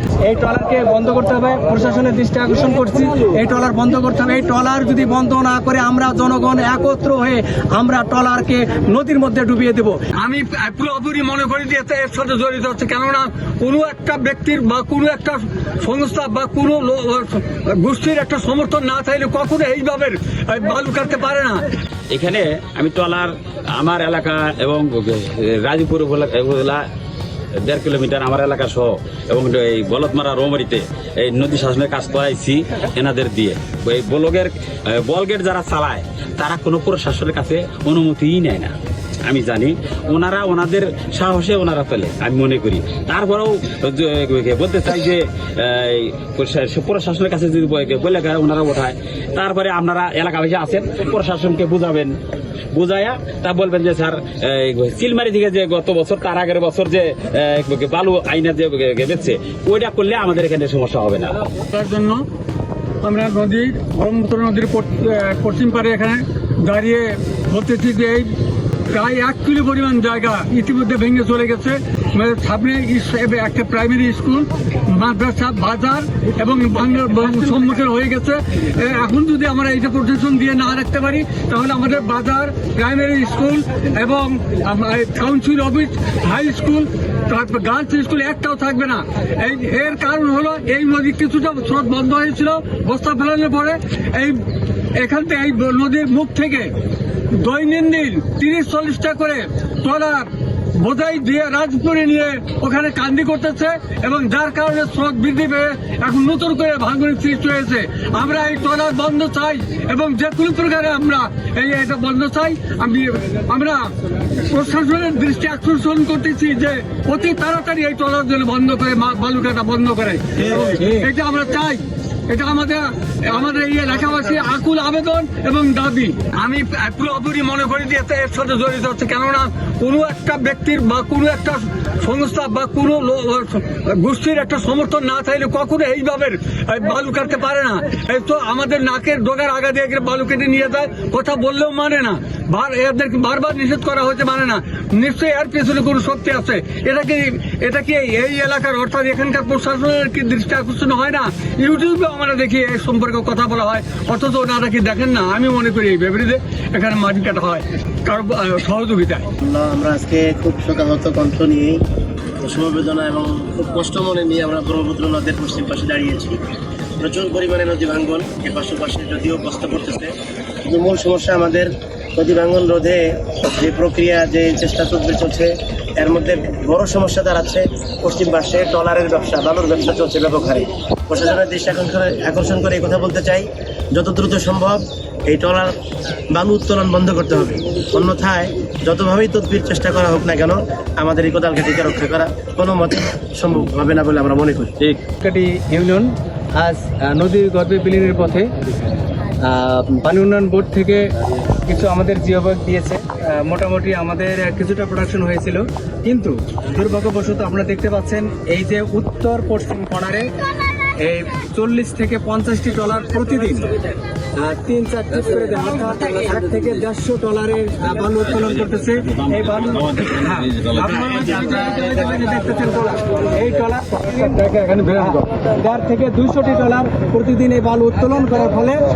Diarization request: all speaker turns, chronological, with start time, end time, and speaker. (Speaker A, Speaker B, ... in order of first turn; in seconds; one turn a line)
Speaker A: 0.2-10.0
Speaker B: 10.2-21.6
Speaker C: 22.1-26.8
Speaker C: 27.6-38.7
Speaker C: 39.3-52.2
Speaker C: 52.7-61.4
Speaker B: 61.7-62.2
Speaker B: 63.0-68.3
Speaker B: 68.9-94.4
Speaker B: 94.9-96.7
Speaker B: 97.3-159.3
Speaker D: 159.4-161.8
Speaker D: 162.4-166.4
Speaker D: 167.0-170.1
Speaker D: 170.7-185.7
Speaker D: 186.3-194.7
Speaker A: 195.2-198.5
Speaker A: 199.4-201.0
Speaker A: 201.7-210.3
Speaker A: 211.0-213.7
Speaker A: 214.4-224.3
Speaker C: 219.5-221.3
Speaker B: 224.2-225.2
Speaker A: 225.0-228.8